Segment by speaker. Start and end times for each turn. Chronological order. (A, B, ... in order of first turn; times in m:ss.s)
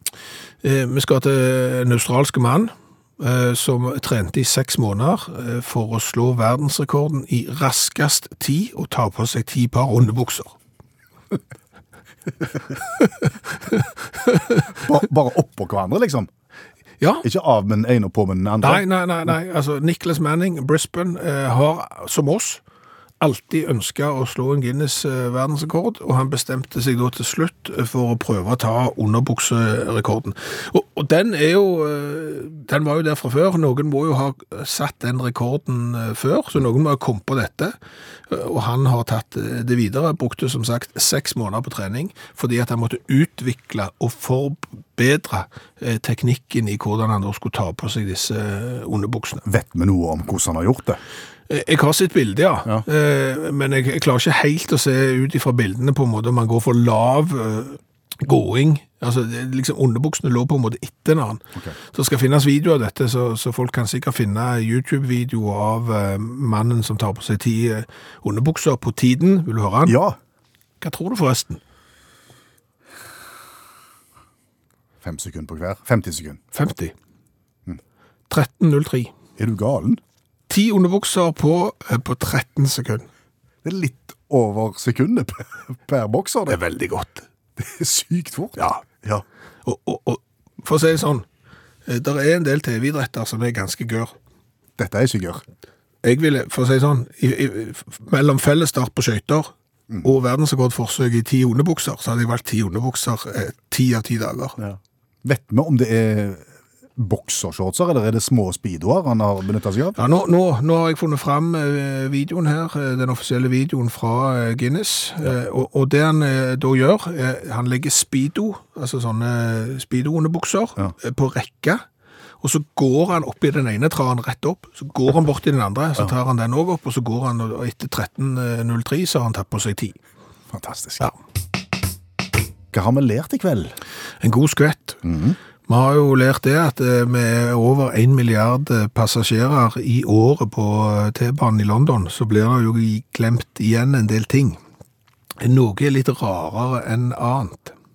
0:00.6-0:10.6 A
0:14.7-0:16.3 B
0:17.2-0:18.8 B
0:18.6-0:22.6 A
0:23.2-0:37.7 A
0:38.3-0:49.4 A
0:49.4-0:51.0 B
0:51.5-1:10.0 A
1:09.8-1:10.2 B
1:10.8-1:11.6 A
1:15.0-1:16.4 B
1:16.5-1:16.9 A
1:18.3-1:19.1 A
1:19.4-1:20.0 B
1:20.5-1:23.1 A
1:23.6-1:26.6 B
1:26.5-1:27.2 A
1:27.6-1:29.2 B
1:29.6-1:31.2 A
1:31.9-1:34.1 A
1:34.8-1:35.4 B
1:36.0-1:44.6 A
1:44.6-1:50.0 B
1:50.0-2:01.8 A
2:02.4-2:10.0 A
2:10.5-2:11.1 B
2:12.7-2:13.8 B
2:14.2-2:15.0 A
2:15.0-2:15.4 B
2:15.7-2:24.6 A
2:25.4-2:27.7 A